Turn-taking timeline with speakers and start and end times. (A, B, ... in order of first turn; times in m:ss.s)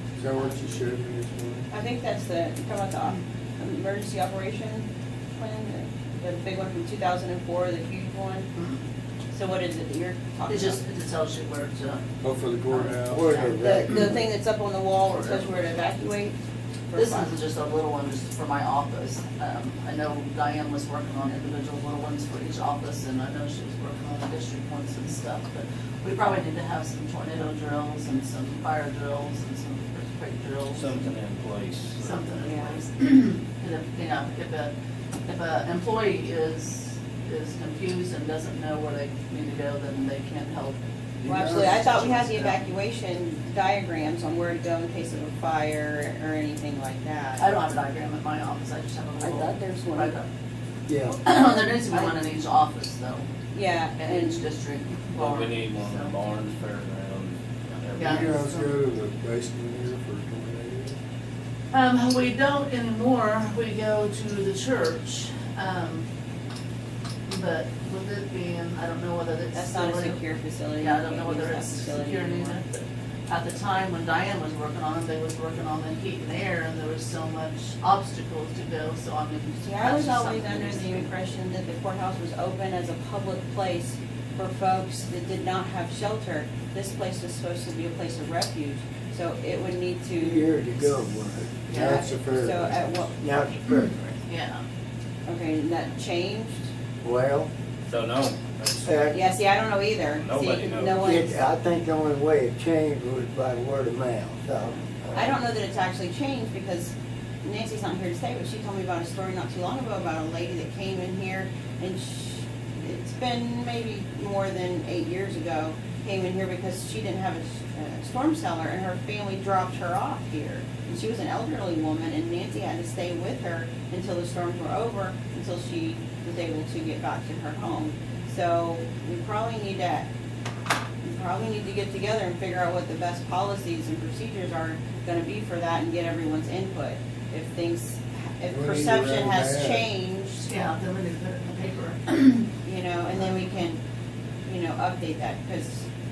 0:00.2-0:01.6 A
0:01.7-0:08.5 B
0:09.3-0:10.8 B
0:10.5-0:12.1 C
0:12.2-0:13.2 A
0:12.7-0:14.0 C
0:13.1-0:14.2 D
0:13.6-0:16.4 B
0:15.2-0:15.5 C
0:16.9-0:17.3 B
0:16.9-0:31.0 C
0:30.7-0:32.1 E
0:32.0-0:34.7 C
0:32.4-0:32.8 B
0:35.2-0:40.8 C
0:41.3-0:47.4 B
0:41.3-0:42.6 C
0:47.4-0:50.2 C
0:49.2-0:50.1 B
0:50.9-0:51.2 D
0:51.2-0:53.2 C
0:51.4-0:52.1 B
0:53.5-0:54.4 B
0:54.0-0:56.1 C
0:55.2-0:58.2 E
0:57.9-0:58.8 C
0:58.0-1:00.9 A
1:01.7-1:06.0 C
1:07.3-1:10.2 C
1:09.5-1:12.6 B
1:10.8-1:21.1 C
1:19.6-1:30.5 B
1:30.2-1:32.4 D
1:31.7-1:32.0 C
1:31.7-1:33.1 B
1:31.8-1:32.9 A
1:33.2-1:34.1 D
1:34.3-1:34.6 C
1:35.2-1:36.7 B
1:37.0-1:37.5 D
1:37.9-1:38.9 E
1:38.8-1:39.2 D
1:39.1-1:41.4 B
1:40.1-1:41.2 E
1:41.0-1:45.4 D
1:45.1-1:46.9 B
1:47.4-2:10.1 B
2:11.0-2:20.5 B
2:18.5-2:19.8 D
2:20.4-2:22.5 C
2:22.6-2:23.8 B
2:24.4-2:25.8 B